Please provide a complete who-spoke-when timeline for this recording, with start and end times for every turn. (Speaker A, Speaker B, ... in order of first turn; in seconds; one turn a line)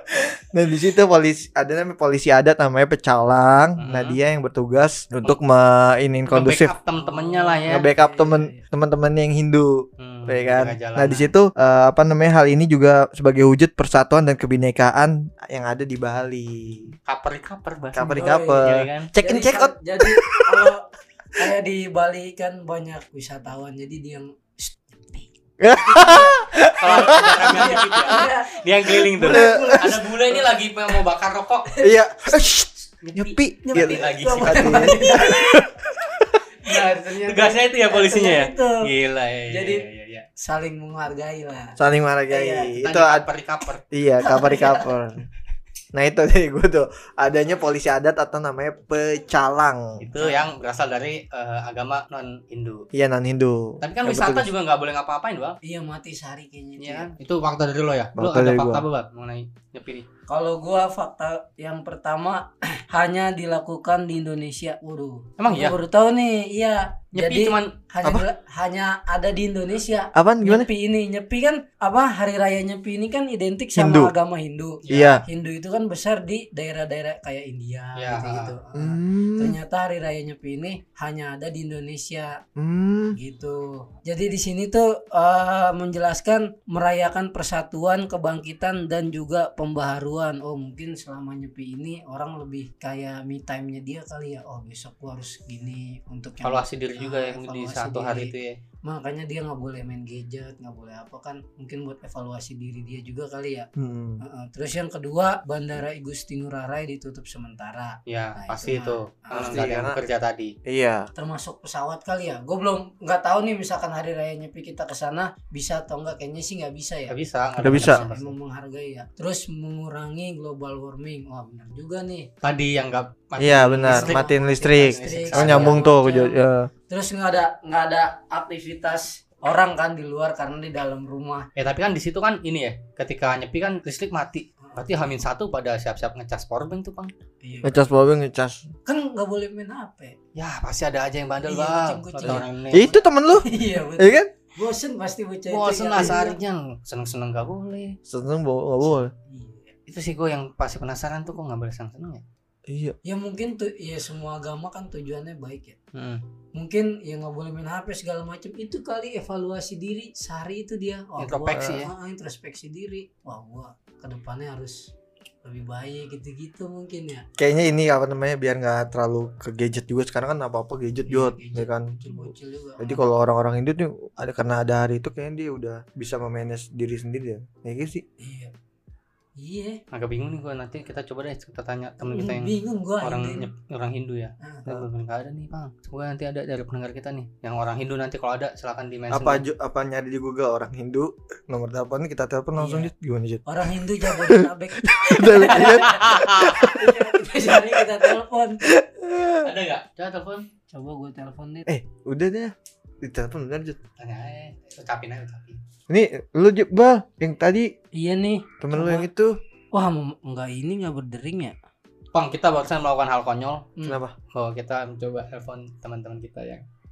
Speaker A: 0.5-6.7
Speaker B: 3.8-4.2
Speaker B: 6.3-7.9
Speaker C: 7.0-8.6
Speaker A: 7.7-16.9
Speaker B: 10.0-11.3
Speaker B: 17.1-19.1
Speaker A: 17.9-20.7
Speaker C: 18.0-30.5
Speaker A: 25.6-28.2
Speaker B: 26.8-31.7
Speaker A: 29.1-30.0
Speaker C: 31.7-32.0
Speaker A: 31.8-35.9
Speaker B: 33.0-35.0
Speaker C: 33.6-35.5
Speaker C: 36.6-38.9
Speaker B: 37.1-40.2
Speaker C: 39.5-39.9
Speaker C: 40.4-41.8
Speaker A: 41.8-43.3
Speaker C: 42.3-42.7
Speaker B: 42.8-43.8
Speaker A: 43.9-45.2
Speaker C: 44.2-44.9
Speaker A: 45.9-49.8
Speaker B: 50.0-52.9
Speaker C: 50.1-50.5
Speaker A: 52.9-54.5
Speaker B: 53.8-55.6
Speaker C: 55.6-57.1
Speaker B: 56.8-60.1
Speaker A: 58.1-58.9
Speaker C: 60.3-82.4
Speaker B: 65.4-65.8
Speaker B: 67.1-67.7
Speaker A: 70.1-70.7
Speaker A: 73.8-74.1
Speaker B: 74.8-75.2
Speaker A: 74.9-75.2
Speaker B: 77.9-78.5
Speaker A: 78.7-79.6
Speaker A: 82.6-83.2
Speaker C: 83.1-98.3
Speaker B: 96.4-98.6
Speaker C: 98.9-103.7
Speaker A: 103.8-104.2
Speaker C: 104.2-109.8
Speaker B: 108.1-110.5
Speaker A: 109.3-110.0
Speaker A: 110.7-111.1
Speaker C: 111.1-117.1
Speaker B: 117.1-118.3
Speaker A: 117.6-118.0
Speaker C: 117.7-122.3
Speaker B: 122.4-125.8
Speaker A: 123.4-126.7
Speaker C: 123.8-126.4
Speaker C: 126.9-131.5
Speaker B: 131.6-137.1
Speaker C: 134.6-134.9
Speaker C: 137.4-137.9
Speaker A: 137.6-138.7
Speaker C: 138.8-140.2
Speaker B: 140.3-142.9
Speaker C: 141.4-146.4
Speaker A: 142.2-144.3
Speaker B: 145.5-147.9
Speaker A: 148.1-149.1
Speaker C: 149.3-149.7
Speaker B: 149.9-152.2
Speaker A: 152.7-152.9
Speaker C: 153.0-155.8
Speaker B: 155.9-156.2
Speaker C: 156.5-164.9
Speaker B: 161.2-161.9
Speaker A: 161.5-161.8
Speaker C: 165.4-167.2
Speaker A: 167.4-178.0
Speaker C: 171.1-173.0
Speaker C: 178.2-178.5
Speaker C: 179.4-179.8
Speaker B: 179.9-189.4
Speaker C: 182.0-183.5
Speaker A: 189.1-197.8
Speaker C: 192.6-192.9
Speaker C: 193.4-198.6
Speaker B: 195.5-196.6
Speaker A: 198.6-199.4
Speaker B: 199.4-200.5
Speaker C: 200.7-201.7
Speaker A: 201.7-203.8
Speaker B: 204.0-205.6
Speaker A: 205.9-207.7
Speaker C: 207.9-209.1
Speaker A: 208.6-209.4
Speaker C: 209.7-211.5
Speaker B: 212.1-213.7
Speaker A: 213.8-214.1
Speaker B: 214.3-216.6